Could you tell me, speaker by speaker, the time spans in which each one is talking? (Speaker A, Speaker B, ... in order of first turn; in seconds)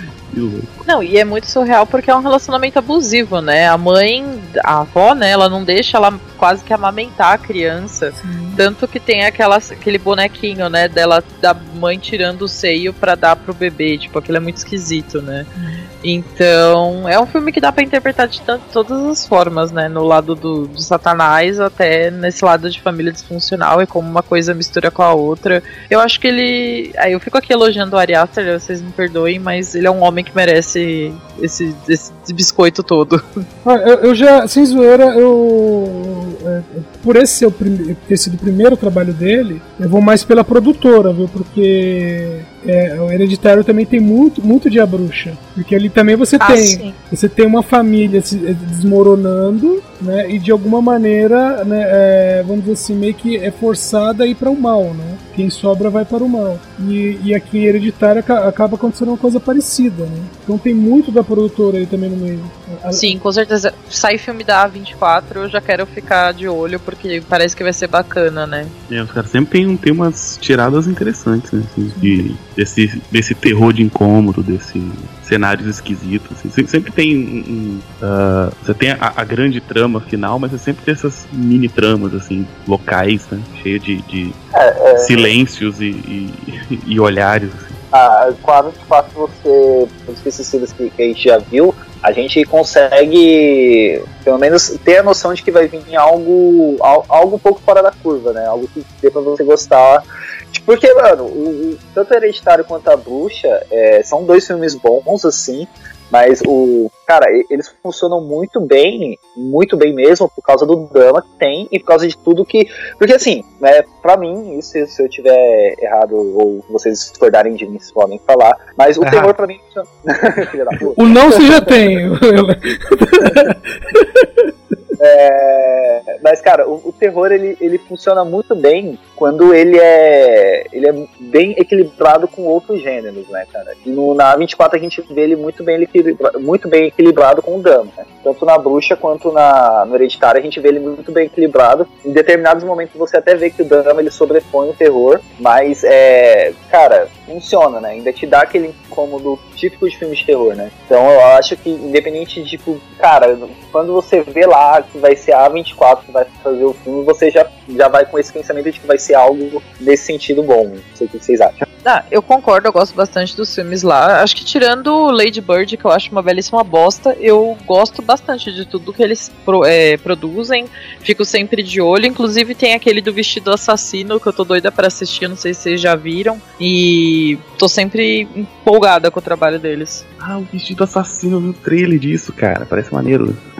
Speaker A: 0.3-0.8, 68.9-84.4, 85.0-87.8, 119.0-119.3, 180.2-183.4
Speaker B: 0.9-15.5, 16.0-33.5, 46.4-47.0, 62.9-68.7, 161.8-180.1
Speaker C: 8.2-8.6, 15.6-15.9, 33.6-63.1, 71.9-72.2, 121.0-124.8
Speaker D: 84.5-85.3, 87.9-121.7, 125.0-161.7